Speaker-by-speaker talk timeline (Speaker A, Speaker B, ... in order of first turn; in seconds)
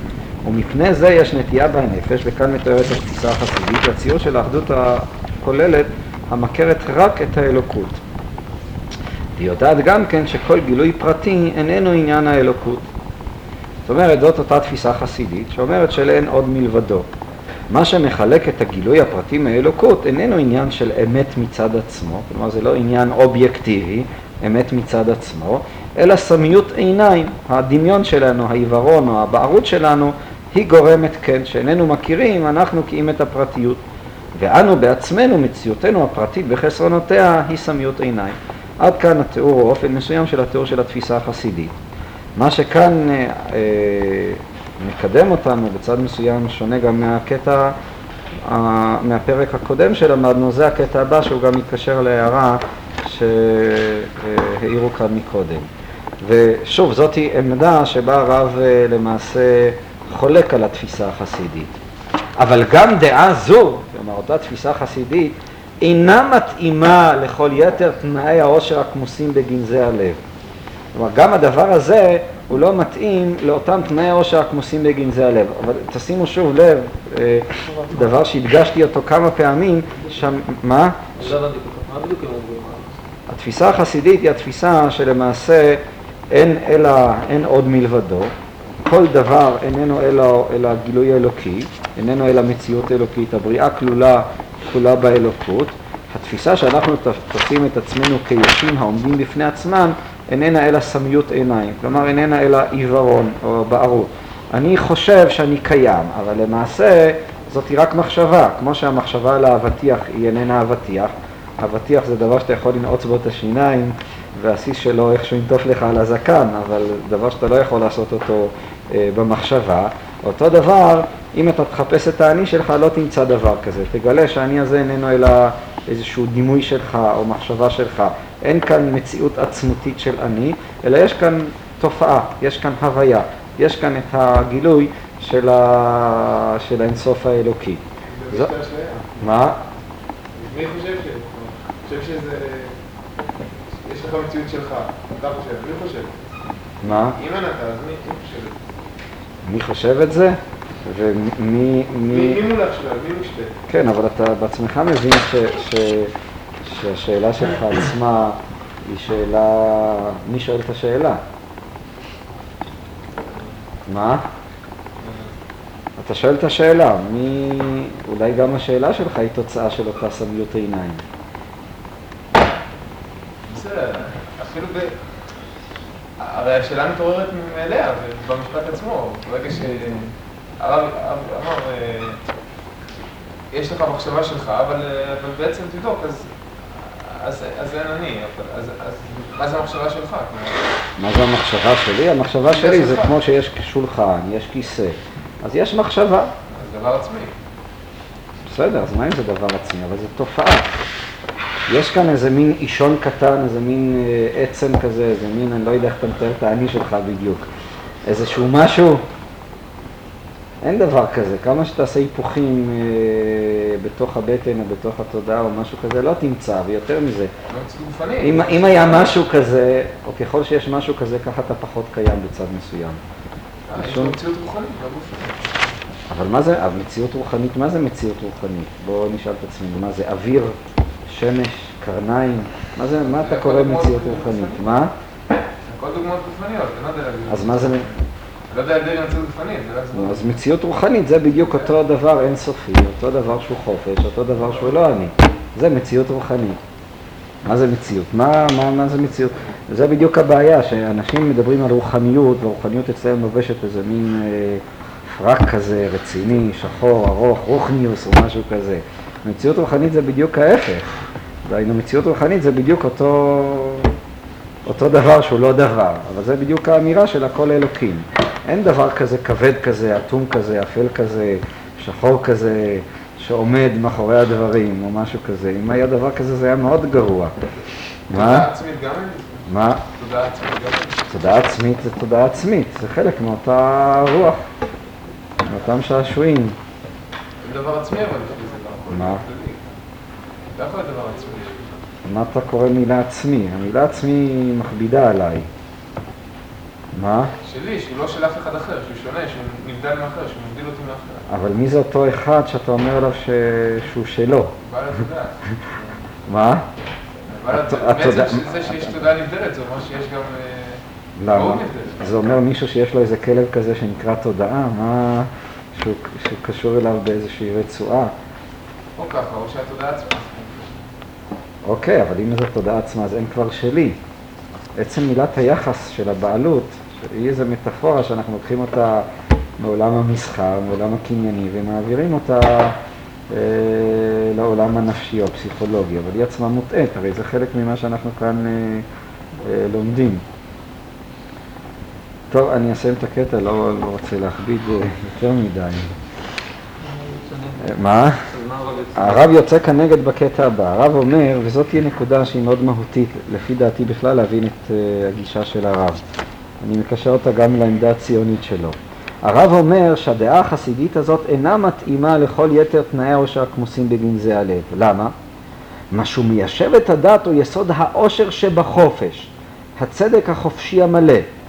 Speaker A: 0.4-8.0, 9.4-12.9, 13.8-17.1, 17.7-33.8, 34.3-41.7, 42.4-47.7, 48.4-55.7, 56.2-61.7, 62.4-70.2, 70.9-81.0, 83.3-85.8, 86.3-88.3, 88.8-138.5, 139.2-139.6, 146.8-147.2, 149.4-152.4, 153.7-156.1, 156.6-161.2, 163.9-164.2, 166.0-171.0, 191.0-196.3, 198.5-200.7, 201.7-207.4, 208.1-209.0, 210.6-217.3, 218.2-223.0, 223.8-224.2, 226.1-230.5, 231.1-234.9, 237.3-237.8, 239.9-246.6, 247.4-254.6, 255.1-260.9, 261.4-263.9, 264.6-277.3, 278.1-278.5, 279.5-279.8, 281.1-284.4, 285.5-286.6, 288.9-289.2, 292.0-295.5, 296.9-297.3, 301.3-304.5, 306.3-306.6, 307.5-308.8, 311.2-318.1, 321.6-324.0, 324.8-329.1, 329.6-332.8, 333.3-338.9, 339.4-340.2, 342.3-345.9, 347.6-348.2, 348.9-356.0, 356.6-365.1, 365.9-371.2
Speaker B: 81.2-83.0, 346.8-349.4
Speaker C: 138.1-139.3, 140.3-142.8, 143.8-146.3, 146.9-148.7, 152.1-153.5, 165.0-165.3, 173.4-175.1, 176.2-182.2, 183.5-190.6, 192.4-193.1, 196.5-197.3, 217.5-219.2, 223.7-225.7, 233.1-234.6, 235.6-237.9, 238.5-240.3, 278.1-281.0, 287.4-289.6, 290.5-291.7, 297.4-301.2, 304.6-306.1, 307.3-312.0, 319.0-320.9